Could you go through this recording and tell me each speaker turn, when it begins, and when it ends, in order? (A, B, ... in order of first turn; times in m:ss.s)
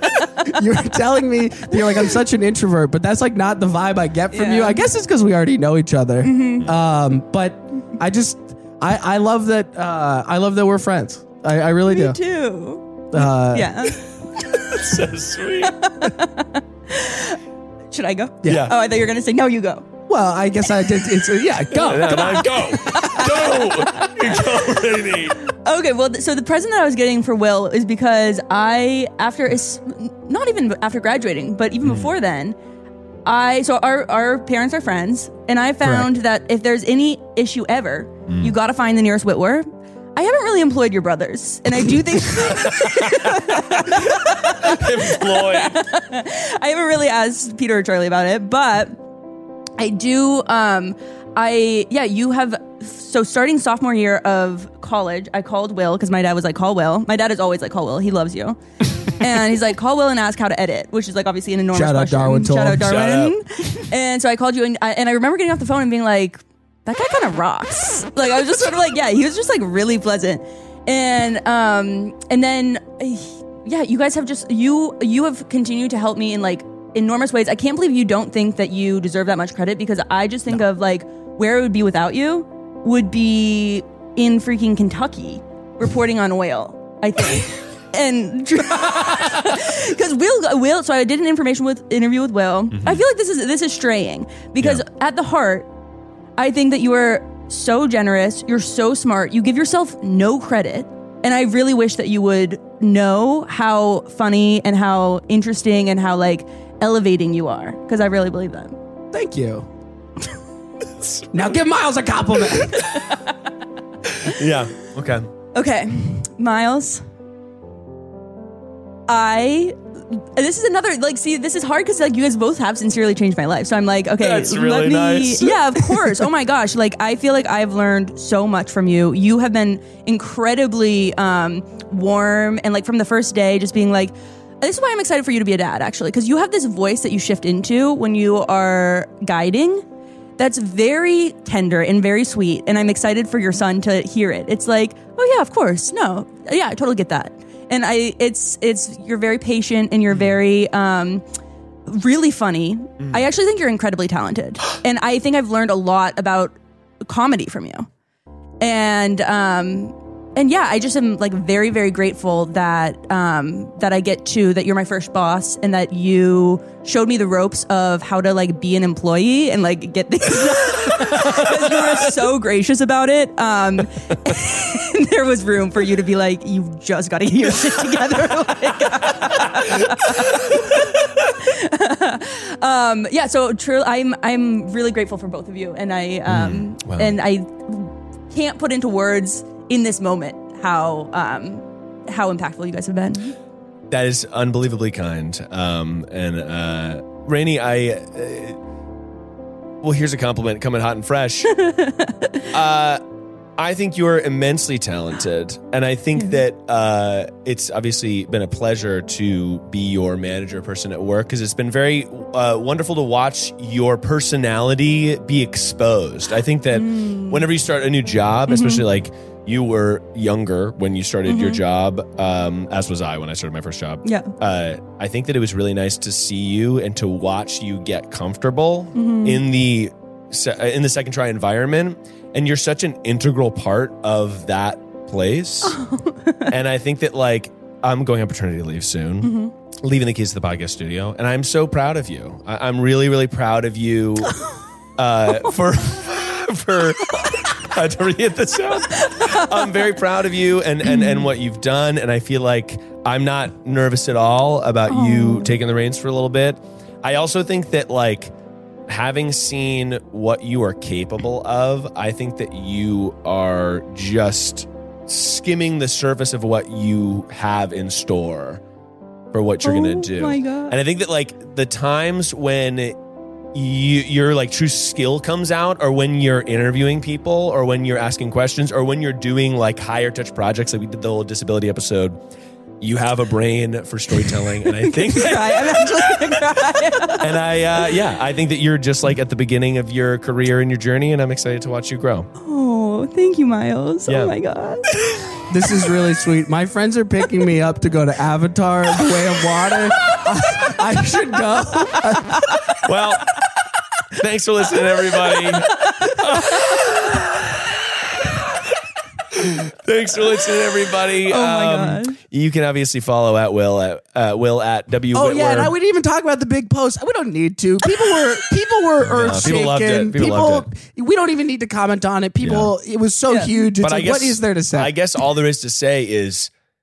0:00.4-0:12.2 A
0:04.3-0:04.9 B
0:06.2-0:06.7 B
0:11.9-0:14.0 B
0:13.1-0:13.8 A
0:14.4-0:15.8 C
0:15.8-0:17.4 B
0:17.9-0:19.9 B
0:18.5-0:18.8 C
0:20.1-0:22.4 A
0:21.8-0:24.4 B
0:21.8-0:25.4 C
0:25.5-0:32.6 B
0:31.8-0:32.1 C
0:33.3-0:49.0 B
0:35.8-0:36.1 A
0:38.3-0:38.6 C
0:42.3-0:45.8 C
0:49.8-1:35.7 B
1:01.7-1:02.9 A
1:02.7-1:03.4 C
1:32.7-1:33.0 C
1:36.4-1:48.8 B
1:49.1-1:49.7 A
1:51.0-1:51.4 C
1:51.3-1:52.9 A
1:52.7-1:53.4 B
1:54.1-1:55.3 C
1:55.5-1:57.0 B
1:59.1-2:19.8 B
2:04.2-2:06.2 C
2:20.4-2:31.2 B
2:30.1-2:30.4 C
2:31.9-2:37.9 B
2:38.6-3:13.4 B
2:51.0-2:51.9 C
2:59.6-3:00.7 C
3:06.3-3:07.2 C
3:13.9-3:18.6 C
3:19.8-3:21.5 C
3:21.5-3:22.5 B
3:22.5-3:23.0 C
3:23.6-3:55.8 C
3:26.2-3:26.4 B
3:36.7-3:37.5 B
3:38.5-3:38.8 B
3:41.3-3:41.6 B
3:44.0-3:44.3 B
3:49.0-3:49.4 B
3:55.6-3:56.5 B
3:56.5-4:04.4 C
3:59.2-3:59.5 B
4:04.3-4:04.6 B
4:05.0-4:18.3 C
4:08.9-4:09.9 B
4:10.8-4:11.3 B
4:14.9-4:15.6 B
4:18.9-4:28.6 C
4:29.3-4:33.0 C
4:29.6-4:30.8 B
4:33.5-4:42.2 C
4:42.8-4:46.4 C
4:44.8-4:47.3 B
4:47.2-4:52.3 C
4:52.4-4:54.8 B
4:54.1-4:54.4 C
4:55.5-5:02.6 A
5:02.8-5:03.4 C
5:04.1-5:08.6 C
5:05.5-5:06.2 B
5:09.3-5:15.7 C
5:11.2-5:12.2 B
5:15.1-5:24.9 A
5:19.0-5:20.7 C
5:22.4-5:22.7 C
5:23.8-5:26.5 C